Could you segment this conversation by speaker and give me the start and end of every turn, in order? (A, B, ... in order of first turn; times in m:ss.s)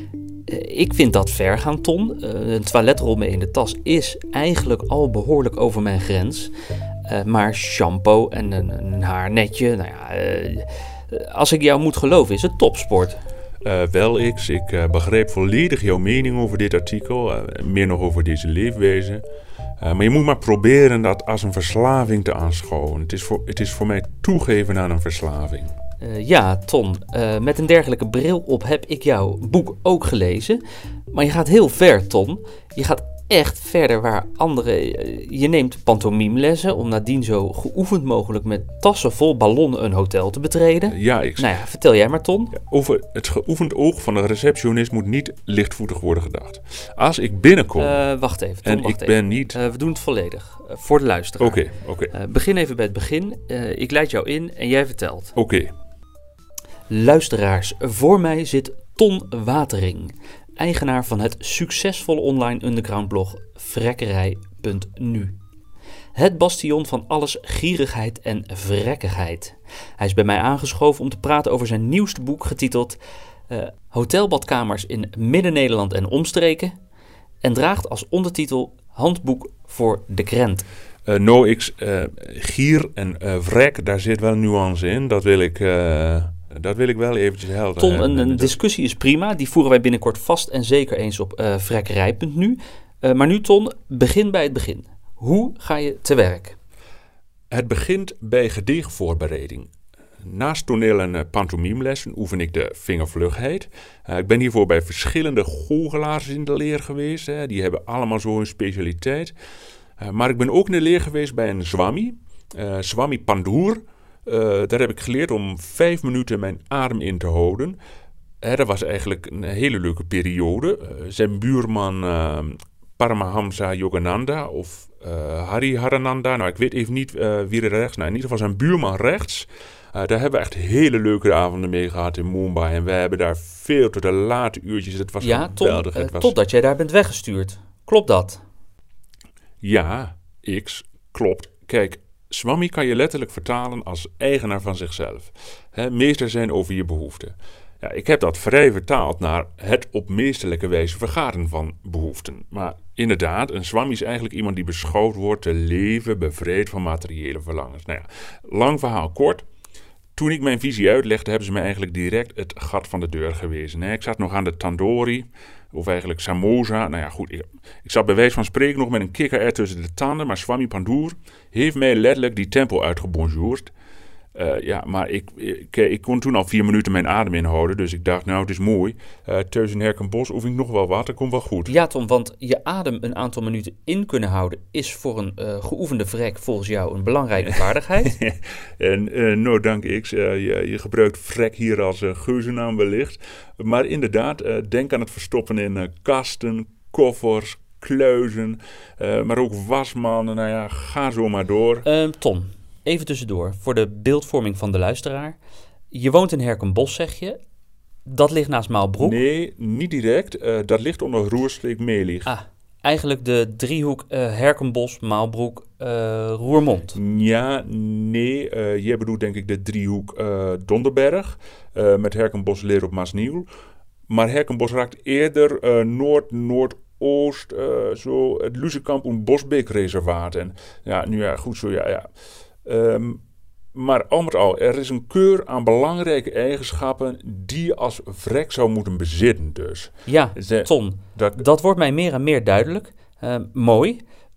0:00.5-0:06.5 A
0:07.1-0:13.2 A
0:13.6-0:19.2 B
0:19.8-0:25.7 B
0:26.0-0:42.6 A
0:40.9-0:41.5 B
0:42.5-0:48.0 B
0:47.8-0:55.4 A
0:48.6-0:49.6 B
0:51.4-0:52.1 B
0:55.4-0:55.7 B
0:56.9-1:05.3 A
1:06.1-1:16.7 A
1:17.4-1:20.6 A
1:21.0-1:28.6 B
1:27.8-1:36.6 A
1:37.5-1:39.7 B
1:40.2-1:49.3 B
1:50.0-1:57.8 B
1:58.4-2:16.3 B
2:15.2-2:18.4 A
2:19.6-2:39.4 B
2:40.2-2:53.7 B
2:54.3-3:01.7 B
3:01.7-3:08.2 A
3:08.0-3:21.8 B
3:21.8-3:25.4 A
3:25.9-3:27.4 A
3:28.0-3:29.2 A
3:29.0-3:32.3 B
3:32.2-3:37.0 A
3:36.9-3:43.5 B
3:44.1-3:52.1 B
3:52.6-3:53.2 B
3:53.7-4:01.4 B
4:00.0-4:04.0 A